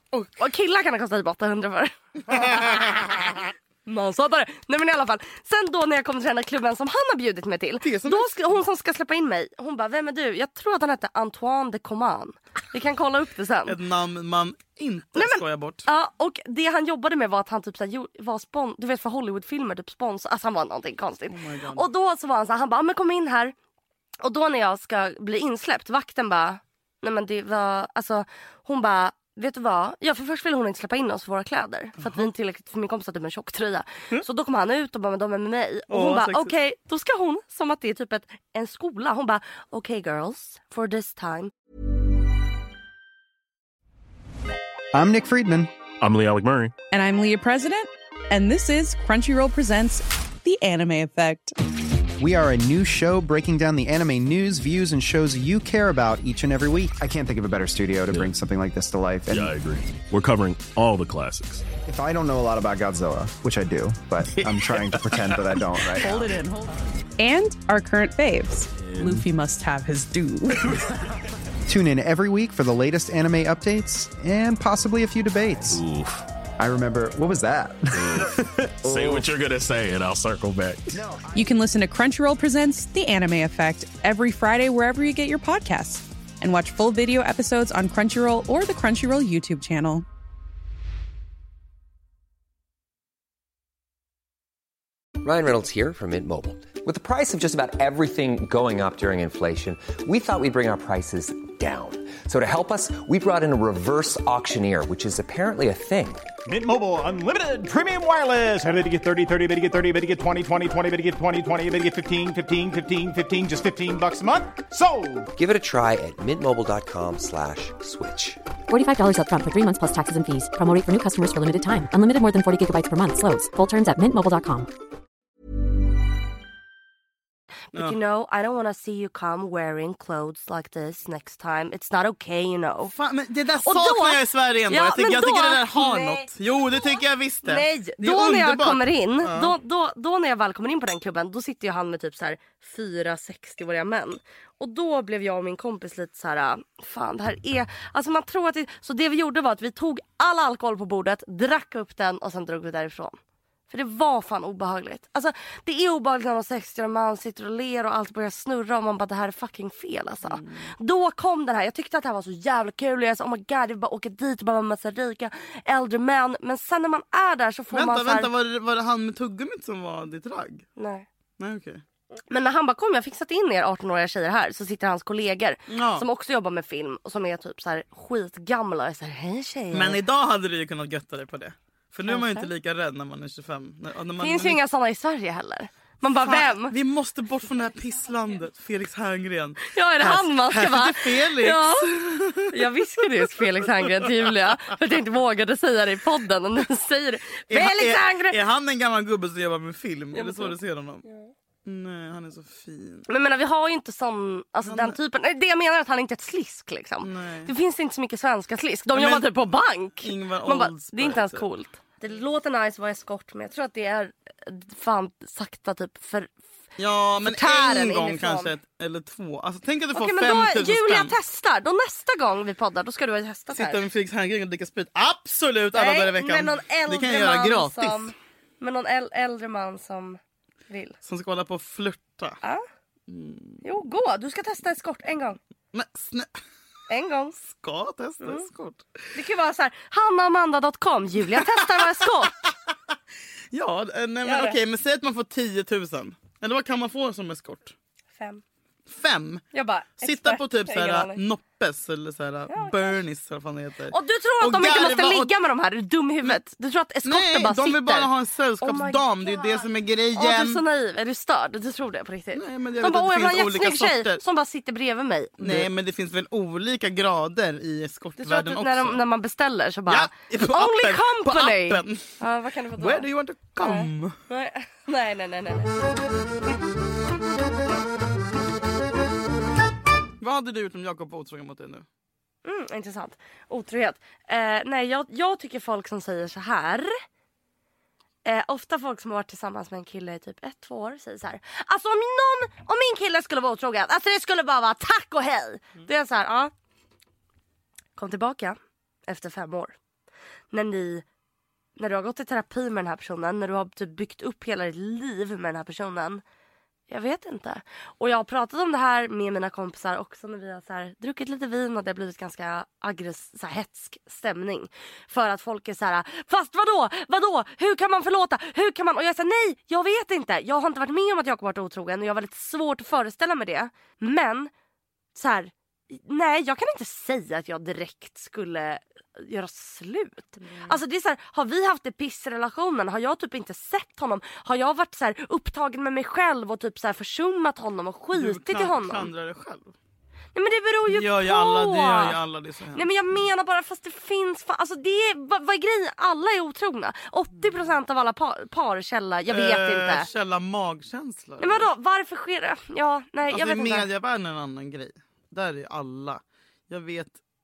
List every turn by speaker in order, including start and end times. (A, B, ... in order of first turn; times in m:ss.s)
0:00.1-0:00.4 A
0:00.4-0:13.8 B
0:02.2-0:03.4 A
0:07.8-0:08.5 A
0:13.7-0:15.9 A
0:15.2-0:23.6 B
0:21.3-0:21.9 A
0:24.2-0:41.5 B
0:32.0-0:32.3 A
0:35.9-0:36.5 A
0:44.9-0:45.7 C
0:46.0-0:46.7 D
0:46.9-0:51.6 E
0:52.2-0:59.5 C
0:59.3-1:01.6 D
1:01.8-1:06.4 C
1:04.4-1:05.4 D
1:06.0-1:10.8 E
1:08.8-1:09.2 D
1:11.7-1:15.8 C
1:15.7-1:16.2 D
1:16.6-1:19.3 C
1:18.0-1:21.0 D
1:20.9-1:21.5 C
1:21.3-1:30.0 E
1:35.2-1:46.3 F
1:46.5-1:55.3 G
1:55.4-1:58.4 F
1:58.7-2:04.7 H
2:07.7-2:12.9 B
2:12.9-2:19.6 A
2:13.6-2:33.2 B
2:33.7-2:48.3 B
2:40.2-2:40.7 A
2:47.7-2:50.6 A
2:50.8-2:51.1 B
2:51.4-2:51.8 A
2:52.3-3:00.0 B
2:55.7-2:56.1 A
2:59.7-3:04.6 A
3:02.1-3:02.5 B
3:04.2-3:06.8 B
3:06.2-3:12.5 A
3:09.7-3:18.4 B
3:13.4-3:14.3 A
3:17.5-3:21.0 A
3:20.1-3:21.3 B
3:21.6-3:23.1 A
3:23.1-3:36.4 B
3:24.6-3:25.0 A
3:27.0-3:27.5 A
3:28.9-3:29.3 A
3:30.0-3:31.5 A
3:36.8-3:41.2 A
3:37.2-3:38.5 B
3:40.0-3:43.8 B
3:43.5-3:48.1 A
3:45.7-3:50.2 B
3:50.7-3:51.0 B
3:51.0-3:52.4 A
3:53.1-3:53.6 A
3:53.6-3:55.4 B
3:55.7-3:56.3 A
3:56.9-3:57.4 B
3:57.4-3:59.0 A
3:59.1-4:02.5 B
4:01.6-4:02.1 A
4:03.5-4:07.8 A
4:04.2-4:04.6 B
4:08.2-4:08.4 B
4:08.9-4:09.4 A
4:09.5-4:11.2 B
4:10.0-4:15.3 A
4:12.5-4:13.0 B
4:13.9-4:25.7 B
4:17.0-4:20.6 A
4:22.4-4:24.2 A
4:25.4-4:29.0 A
4:28.2-4:35.8 B
4:29.9-4:32.2 A
4:32.8-4:34.2 A
4:40.2-4:41.8 A
4:42.4-4:46.9 B
4:48.2-4:56.5 B
4:58.0-4:59.8 B
5:00.5-5:01.0 B
5:01.8-5:06.2 B
5:06.9-5:24.5 B
5:25.2-5:39.1 B
5:30.4-5:30.8 A
5:38.2-5:39.7 A
5:40.4-5:42.2 B
5:40.9-5:42.9 A
5:42.8-5:50.1 B
5:49.3-5:51.7 A
5:51.4-5:53.9 B
5:53.3-5:57.2 A